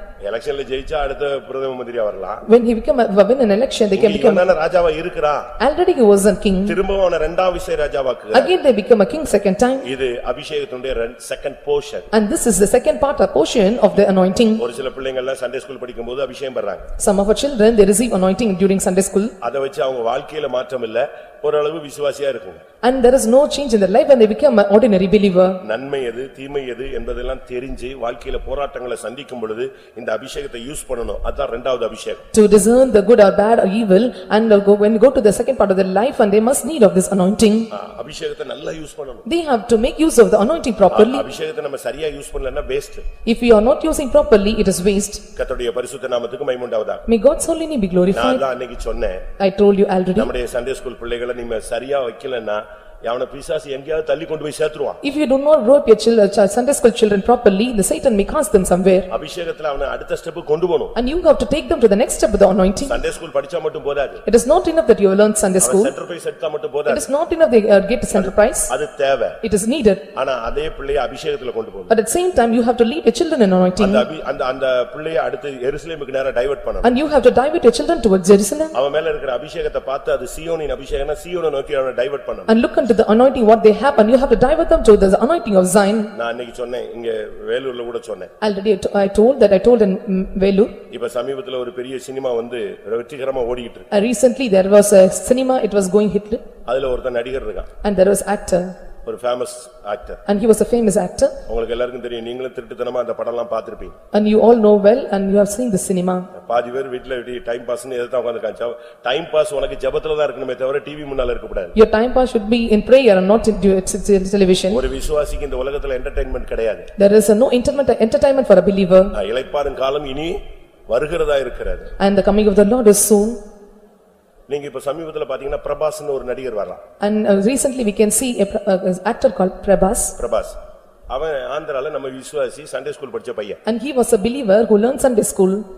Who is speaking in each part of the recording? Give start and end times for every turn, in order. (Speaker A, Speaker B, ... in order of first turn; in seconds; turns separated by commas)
Speaker A: 0.2-2.4, Speaker B: 2.5-4.5, Speaker A: 3.9-5.5, Speaker B: 5.6-6.8, Speaker A: 6.7-8.5, Speaker B: 8.3-9.9, Speaker A: 9.8-12.1, Speaker B: 12.1-14.6, Speaker A: 14.6-16.9, Speaker B: 17.0-19.3, Speaker A: 19.4-22.6, Speaker B: 22.8-25.6, Speaker A: 25.6-32.2, Speaker B: 32.3-37.7, Speaker A: 37.7-39.3, Speaker B: 39.3-41.3, Speaker A: 40.9-43.0, Speaker B: 43.3-45.2, Speaker A: 45.4-47.0, Speaker B: 47.1-48.5, Speaker A: 48.1-49.2, Speaker B: 49.4-50.3, Speaker A: 50.2-55.0, Speaker B: 55.0-59.1, Speaker A: 59.1-61.0, Speaker B: 61.0-63.0, Speaker A: 62.9-64.2, Speaker B: 64.3-65.9, Speaker A: 65.6-67.1, Speaker B: 66.9-68.7, Speaker A: 68.1-69.4, Speaker B: 69.4-70.0, Speaker A: 70.2-71.9, Speaker B: 71.9-74.1, Speaker A: 73.8-76.9, Speaker B: 76.8-78.8, Speaker A: 78.7-82.6, Speaker B: 82.5-86.1, Speaker A: 86.1-88.3, Speaker B: 88.4-90.8, Speaker A: 90.9-93.9, Speaker B: 93.9-96.4, Speaker A: 96.7-97.7, Speaker B: 97.8-98.7, Speaker A: 99.0-100.2, Speaker B: 100.3-101.3, Speaker A: 101.5-104.0, Speaker B: 104.1-106.3, Speaker A: 106.3-111.7, Speaker B: 111.8-114.8, Speaker A: 114.7-116.9, Speaker B: 117.0-119.1, Speaker A: 119.1-121.9, Speaker B: 122.0-123.4, Speaker A: 124.5-126.8, Speaker B: 127.0-130.2, Speaker A: 130.2-130.6, Speaker A: 131.1-133.6, Speaker B: 133.7-135.6